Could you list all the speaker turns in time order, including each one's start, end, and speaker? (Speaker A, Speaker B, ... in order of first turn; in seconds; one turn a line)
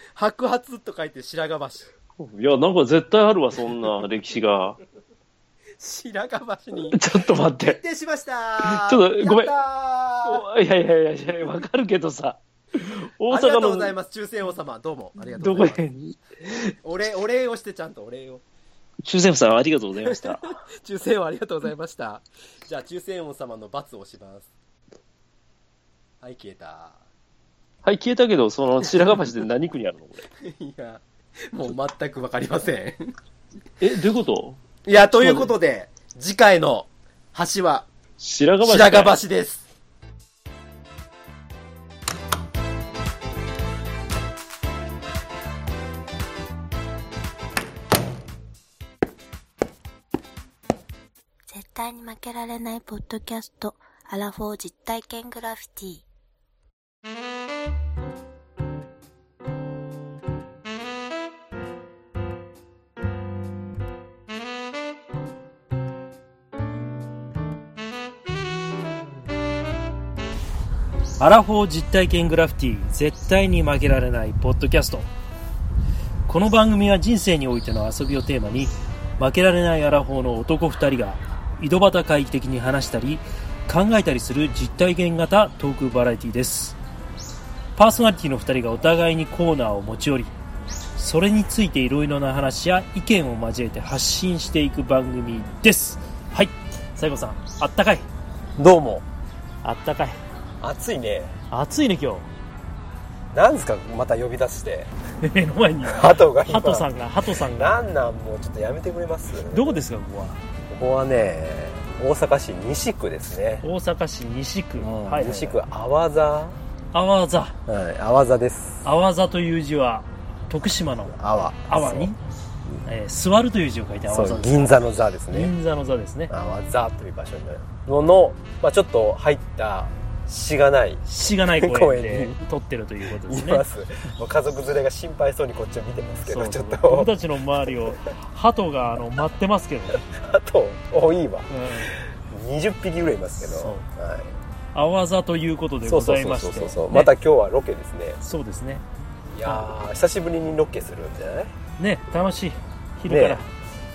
Speaker A: 0.1-1.9
Speaker B: 2.2-4.8
Speaker A: 5.8-7.0
Speaker B: 6.9-7.8
Speaker A: 7.6-10.4
Speaker B: 8.6-9.5
Speaker B: 10.2-13.9
Speaker A: 13.3-15.8
Speaker B: 15.3-16.7
Speaker A: 16.8-18.4
Speaker B: 19.0-20.6
Speaker A: 20.0-24.5
Speaker A: 26.2-27.0
Speaker B: 27.8-30.2
Speaker A: 30.4-33.1
Speaker B: 33.8-35.5
Speaker A: 34.8-37.9
Speaker B: 38.2-39.1
Speaker A: 38.6-39.6
Speaker C: 51.5-56.0
Speaker D: 71.2-75.1
Speaker D: 76.3-86.8
Speaker D: 87.8-90.3
Speaker D: 91.0-98.1
Speaker A: 98.6-99.0
Speaker D: 99.6-100.2
Speaker A: 100.6-101.3
Speaker D: 101.5-102.3
Speaker A: 103.3-104.9
Speaker D: 105.2-107.8
Speaker A: 105.9-106.9
Speaker A: 107.5-109.8
Speaker D: 109.5-110.4
Speaker A: 110.7-113.6
Speaker D: 113.6-115.6
Speaker A: 114.8-116.6
Speaker D: 116.9-117.6
Speaker A: 117.7-118.8
Speaker D: 118.8-121.2
Speaker A: 121.1-122.1
Speaker D: 121.7-122.2
Speaker D: 122.8-124.7
Speaker A: 124.1-125.5
Speaker D: 125.3-126.3
Speaker A: 126.3-131.0
Speaker D: 131.1-133.6
Speaker A: 131.6-132.4
Speaker A: 133.3-137.1
Speaker D: 136.1-140.0
Speaker A: 140.0-144.3
Speaker D: 141.5-141.9
Speaker D: 143.4-143.8
Speaker D: 144.7-147.1
Speaker A: 145.8-148.2
Speaker D: 148.2-148.8
Speaker A: 149.3-151.5
Speaker D: 151.8-153.5
Speaker A: 153.1-153.4